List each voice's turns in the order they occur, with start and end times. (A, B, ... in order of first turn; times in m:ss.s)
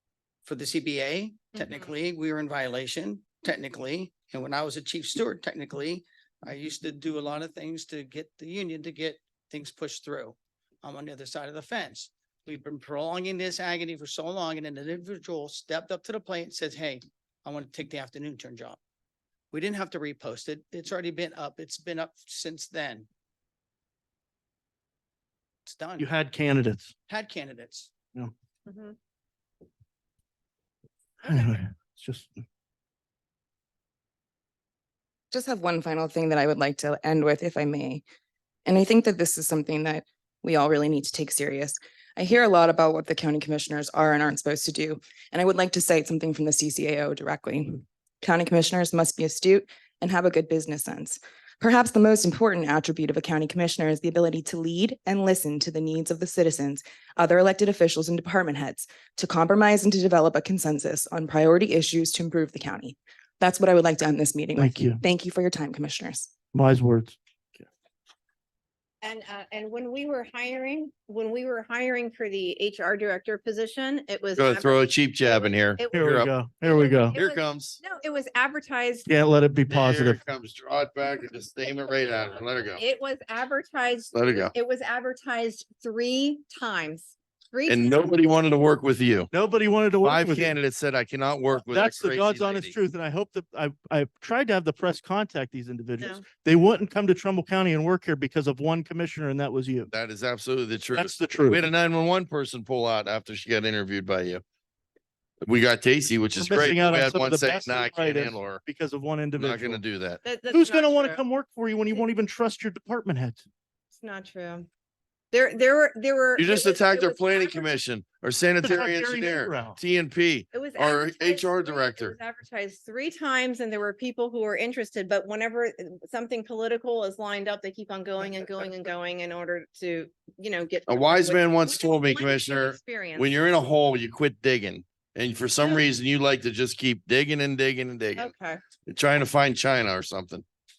0:00.4-0:18.8 A
0:19.5-0:23.1 A
0:25.6-0:26.1 A
0:26.0-0:26.9 B
0:27.1-0:27.9 A
0:28.6-0:28.9 C
0:31.2-0:32.4 B
0:31.2-0:31.5 C
0:35.3-0:38.0 D
0:38.6-1:06.3 D
1:04.6-1:05.0 B
1:06.5-1:07.6 B
1:09.0-1:16.0 C
1:14.4-1:16.3 E
1:15.9-1:17.2 B
1:16.6-1:19.1 C
1:17.1-1:17.8 E
1:19.1-1:20.2 B
1:19.7-1:22.8 E
1:22.8-1:28.2 C
1:24.1-1:24.5 E
1:27.7-1:29.3 E
1:29.3-1:30.6 B
1:30.0-1:32.7 E
1:31.6-1:39.9 B
1:36.0-1:36.2 C
1:39.9-1:44.4 E
1:40.9-1:41.6 B
1:45.4-1:48.6 E
1:46.3-1:49.8 B
1:49.4-1:50.2 E
1:50.2-1:51.2 C
1:50.5-1:53.4 B
1:53.9-1:54.7 C
1:55.3-1:57.8 C
1:56.4-2:02.2 E
1:58.6-1:59.8 B
2:00.5-2:13.3 C
2:10.9-2:18.3 E
2:18.2-2:18.6 C
2:18.8-2:20.4 E